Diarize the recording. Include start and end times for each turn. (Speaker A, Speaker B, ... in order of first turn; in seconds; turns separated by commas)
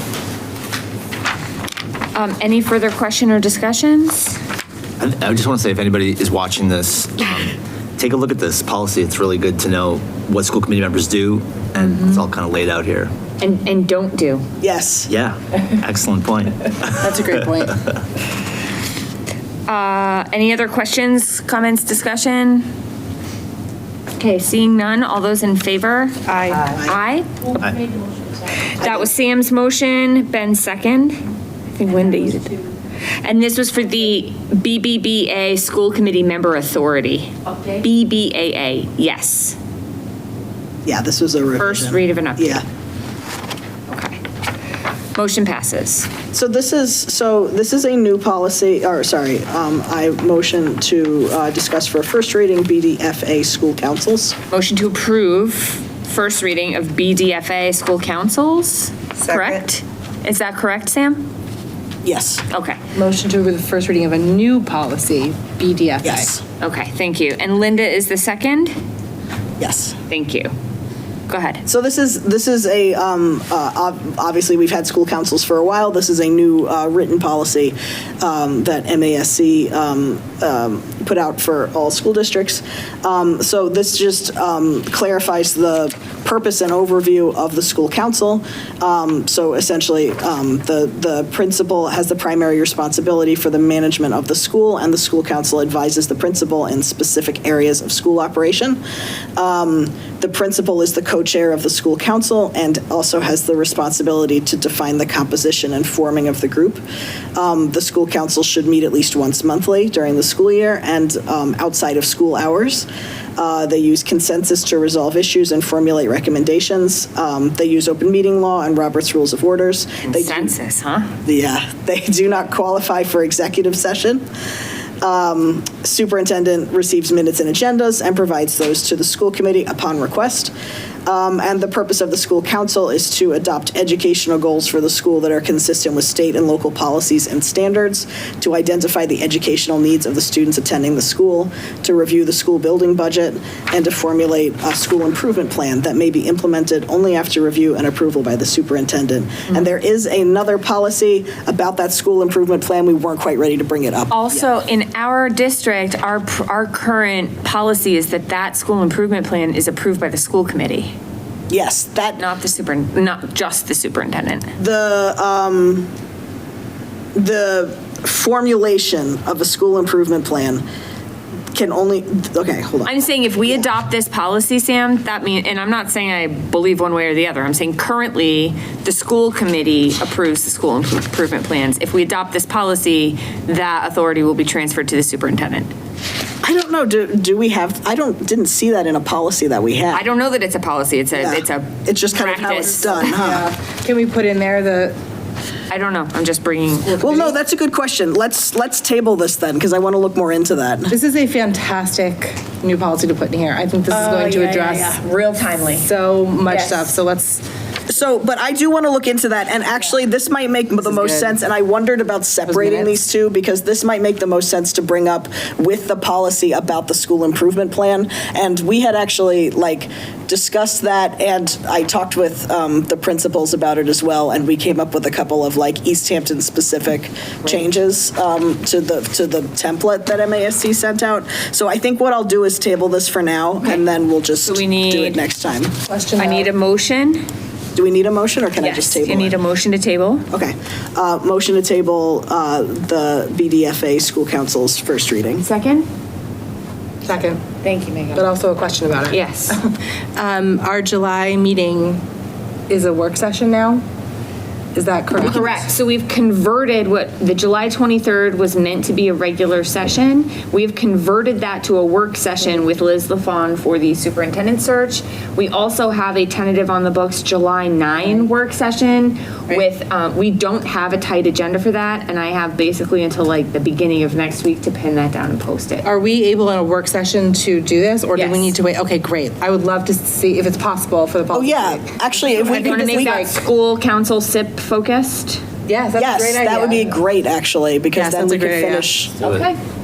Speaker A: 2.1-4.4, Speaker B: 5.0-13.1, Speaker A: 13.4-14.4, Speaker C: 14.6-15.1, Speaker B: 15.1-17.3, Speaker D: 17.0-17.8, Speaker A: 19.7-22.7, Speaker A: 24.2-27.6, Speaker D: 26.3-26.8, Speaker A: 28.8-32.7, Speaker A: 33.2-39.6, Speaker C: 40.9-42.6, Speaker A: 41.6-42.6, Speaker A: 43.9-44.2, Speaker A: 45.1-46.1, Speaker C: 46.3-54.4, Speaker A: 54.5-61.3, Speaker D: 59.2-59.6, Speaker C: 62.0-62.4, Speaker A: 62.5-62.8, Speaker D: 62.9-66.3, Speaker C: 66.0-66.4, Speaker A: 66.6-68.8, Speaker C: 69.6-70.0, Speaker A: 70.1-70.5, Speaker A: 71.3-71.6, Speaker C: 71.7-98.8, Speaker C: 99.4-106.8, Speaker C: 107.3-112.9, Speaker C: 113.4-120.6, Speaker A: 120.1-121.1, Speaker C: 121.2-124.2, Speaker C: 125.0-130.5, Speaker C: 131.1-154.5, Speaker A: 154.1-160.9, Speaker C: 161.5-162.2, Speaker A: 162.2-164.5, Speaker C: 164.6-165.9, Speaker C: 167.2-170.6, Speaker C: 171.5-173.0, Speaker A: 172.9-185.7, Speaker C: 186.4-190.1, Speaker A: 189.9-193.2, Speaker C: 191.2-193.5, Speaker D: 192.8-194.9, Speaker A: 195.7-197.0, Speaker D: 197.0-197.3, Speaker C: 197.0-201.0, Speaker D: 200.9-205.0, Speaker A: 203.9-205.9, Speaker D: 205.8-207.4, Speaker A: 206.5-206.9, Speaker C: 207.9-235.7, Speaker D: 210.8-211.4, Speaker D: 212.5-213.0, Speaker A: 234.4-235.2, Speaker D: 235.9-236.5, Speaker A: 236.2-237.2, Speaker C: 237.8-239.4, Speaker A: 238.6-240.3, Speaker C: 240.3-245.4, Speaker A: 245.4-245.9, Speaker D: 247.0-247.4, Speaker A: 247.6-248.3, Speaker D: 248.2-252.0, Speaker A: 249.1-249.6, Speaker D: 252.7-253.8, Speaker D: 254.8-255.7, Speaker A: 255.2-275.9, Speaker D: 275.8-283.4, Speaker A: 278.1-278.5, Speaker C: 281.3-283.2, Speaker A: 282.4-285.4, Speaker D: 285.7-287.0, Speaker C: 286.0-289.1, Speaker D: 287.9-288.9, Speaker A: 289.2-289.6